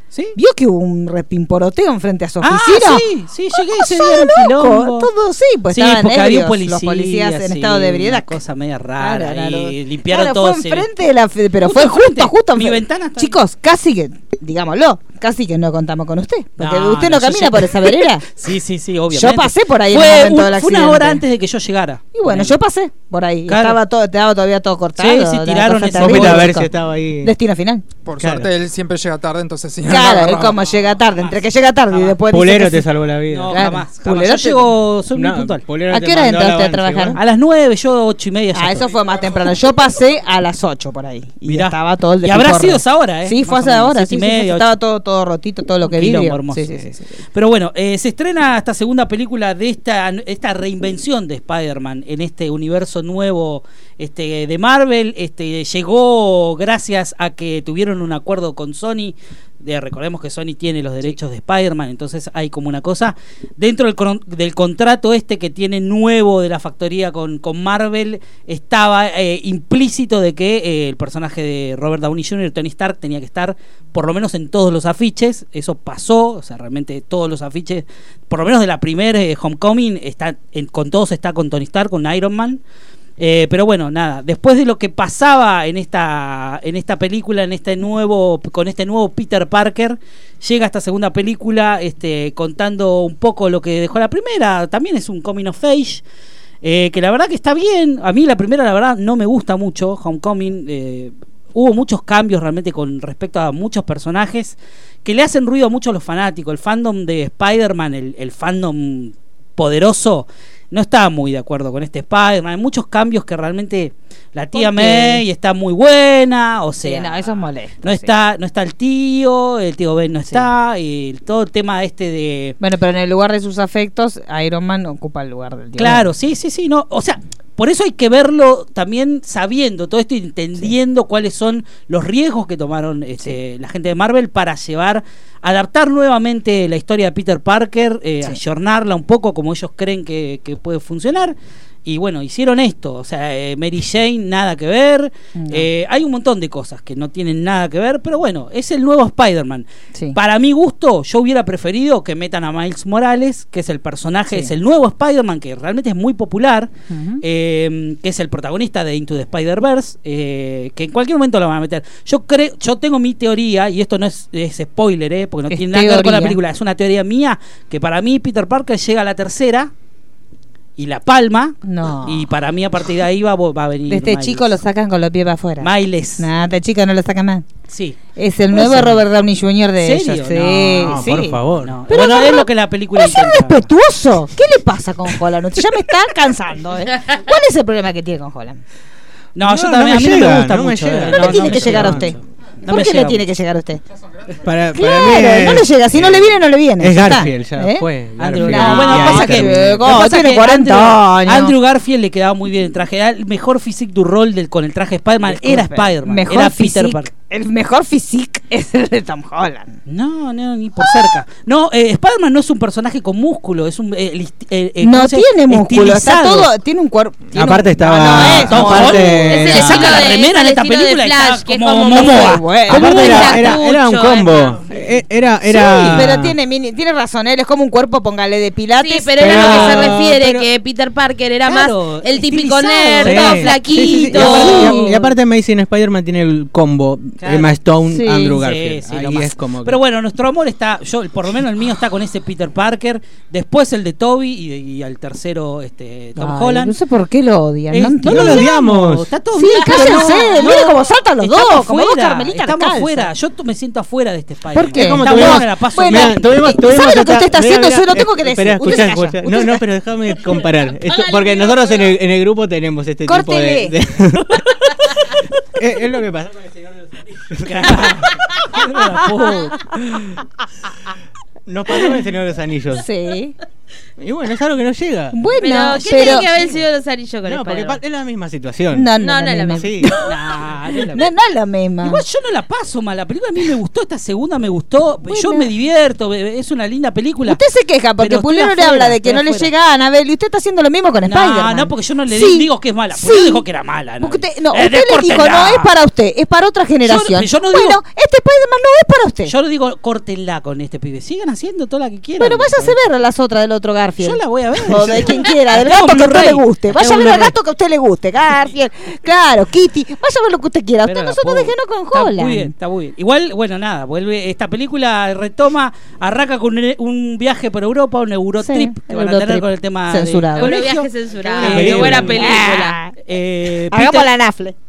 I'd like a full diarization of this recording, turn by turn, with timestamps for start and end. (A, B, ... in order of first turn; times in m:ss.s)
0:00.3-0:08.4 A
0:02.4-0:05.1 B
0:05.7-0:10.9 B
0:09.0-0:18.2 A
0:11.6-0:13.4 B
0:16.6-0:22.6 B
0:19.1-0:21.2 A
0:22.1-0:26.7 A
0:23.5-0:23.8 B
0:25.0-0:26.6 B
0:25.9-0:27.3 C
0:27.2-0:27.8 A
0:28.0-0:30.6 D
0:28.2-0:28.5 C
0:29.8-0:32.9 A
0:30.6-0:32.2 B
0:32.2-0:33.6 C
0:33.3-0:35.6 B
0:33.5-0:34.7 A
0:35.1-0:37.2 C
0:35.9-0:37.2 A
0:37.1-0:38.9 B
0:38.5-0:47.0 A
0:41.5-0:44.8 B
0:45.8-1:22.6 B
1:23.2-1:36.0 B
1:36.6-1:57.3 B
1:54.5-1:55.2 A
1:56.8-1:58.1 A
1:57.8-2:02.6 B
2:00.2-2:00.5 A
2:02.6-2:06.1 A
2:05.8-2:36.7 B
2:25.3-2:25.7 A
2:34.3-2:34.5 A
2:36.9-2:37.2 A
2:37.2-2:49.7 B
2:45.5-2:46.4 A
2:50.8-2:54.5 B
2:51.6-2:52.3 A
2:53.9-2:57.5 A
2:55.6-2:56.3 B
2:57.7-2:58.0 B
2:58.2-3:08.6 A
2:58.5-2:59.0 B
2:59.8-3:01.1 B
3:00.8-3:01.8 C
3:01.6-3:03.7 B
3:09.4-3:13.2 B
3:09.4-3:12.2 C
3:11.1-3:13.8 A
3:14.4-3:20.0 C
3:14.7-3:17.8 A
3:18.2-3:27.1 B
3:18.4-3:21.5 A
3:25.2-3:29.8 A
3:29.9-3:36.5 B
3:30.8-3:31.2 A
3:34.8-3:40.1 A
3:37.3-3:40.1 C
3:38.0-3:43.4 B
3:39.2-3:44.6 E
3:41.9-3:43.5 A
3:42.7-3:46.4 C
3:45.5-3:46.1 B
3:45.5-3:50.0 A
3:48.8-3:54.8 E
3:49.2-3:50.4 C
3:49.4-3:49.7 B
3:51.4-3:55.0 B
3:53.0-3:59.8 C
3:54.2-3:55.0 A
3:57.2-3:57.6 B
3:57.9-3:58.4 A
3:58.4-4:06.8 B
4:06.2-4:08.5 A
4:07.7-4:16.6 B
4:08.0-4:09.1 C
4:09.3-4:13.1 A
4:09.8-4:10.2 C
4:14.5-4:19.6 A
4:14.7-4:24.5 C
4:20.8-4:21.9 E
4:23.0-4:23.7 A
4:25.5-4:27.9 C
4:27.4-4:30.0 B
4:29.2-4:29.5 A
4:31.5-4:32.9 C
4:32.7-4:33.3 A
4:34.0-4:35.2 C
4:35.1-4:36.3 A
4:35.4-4:37.8 E
4:35.8-4:36.6 B
4:37.2-4:38.9 C
4:38.7-4:40.2 A
4:39.0-4:39.7 E
4:39.5-4:40.0 C
4:40.0-4:41.1 B
4:40.9-4:42.0 A
4:41.8-4:47.4 B
4:45.0-4:45.5 A
4:47.2-4:53.4 A
4:48.0-4:49.5 B
4:51.0-4:55.7 B
4:54.0-4:59.3 A
4:56.8-4:57.8 B
4:59.3-5:02.8 B
5:02.2-5:12.5 A
5:04.0-5:07.3 B
5:10.8-5:24.1 B
5:18.4-5:20.6 A
5:20.4-5:22.8 E
5:21.4-5:22.1 C
5:21.4-5:23.0 A
5:23.7-5:24.6 A